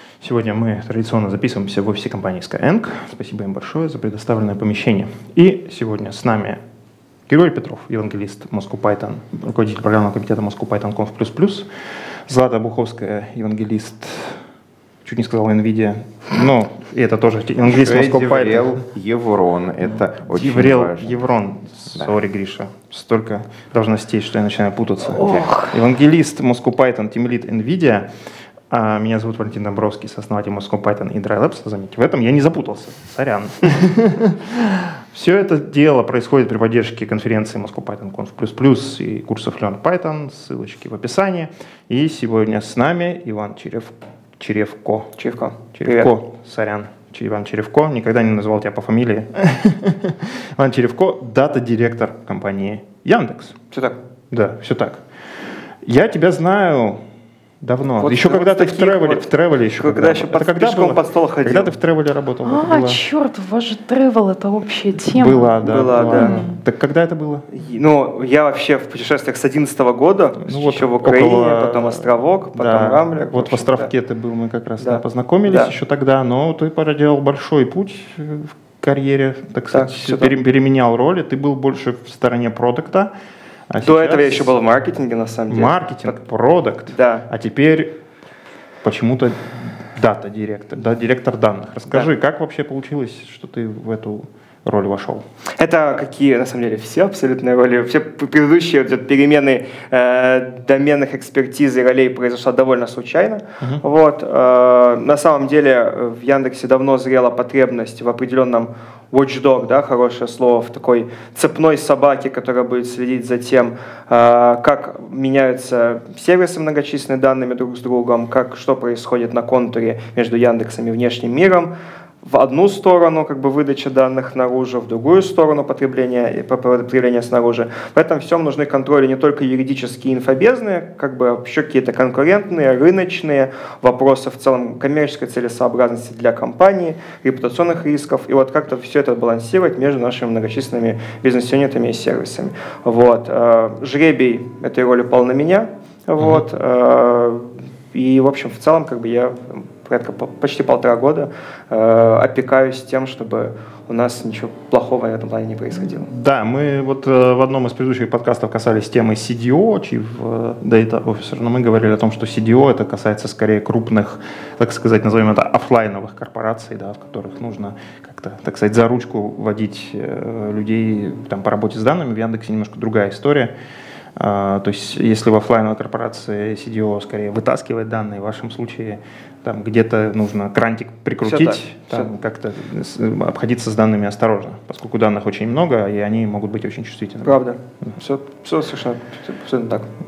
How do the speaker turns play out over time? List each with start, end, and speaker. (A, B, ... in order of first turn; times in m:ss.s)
0:00.2-0:06.6 A
0:07.3-0:11.7 A
0:12.3-0:14.4 A
0:15.0-0:18.8 A
0:17.7-0:21.2 B
0:20.3-0:28.1 A
0:25.1-0:25.7 C
0:28.7-0:45.1 A
0:45.2-0:46.1 D
0:45.7-0:53.5 A
0:54.3-0:55.0 A
0:55.8-0:57.0 A
0:57.6-1:03.0 A
0:58.0-0:59.2 D
0:59.8-1:01.7 D
1:02.4-1:05.5 C
1:05.1-1:07.4 A
1:05.6-1:06.4 D
1:06.1-1:06.5 C
1:07.5-1:13.9 D
1:10.4-1:23.1 A
1:14.8-1:15.7 D
1:19.7-1:20.3 D
1:23.7-1:24.5 A
1:23.8-1:26.2 D
1:25.5-1:27.9 A
1:26.9-1:27.3 D
1:28.8-1:35.2 A
1:35.6-2:36.1 D
2:26.2-2:26.4 A
2:36.1-2:53.5 A
2:54.2-3:07.9 A
3:01.2-3:02.1 D
3:07.2-3:09.9 D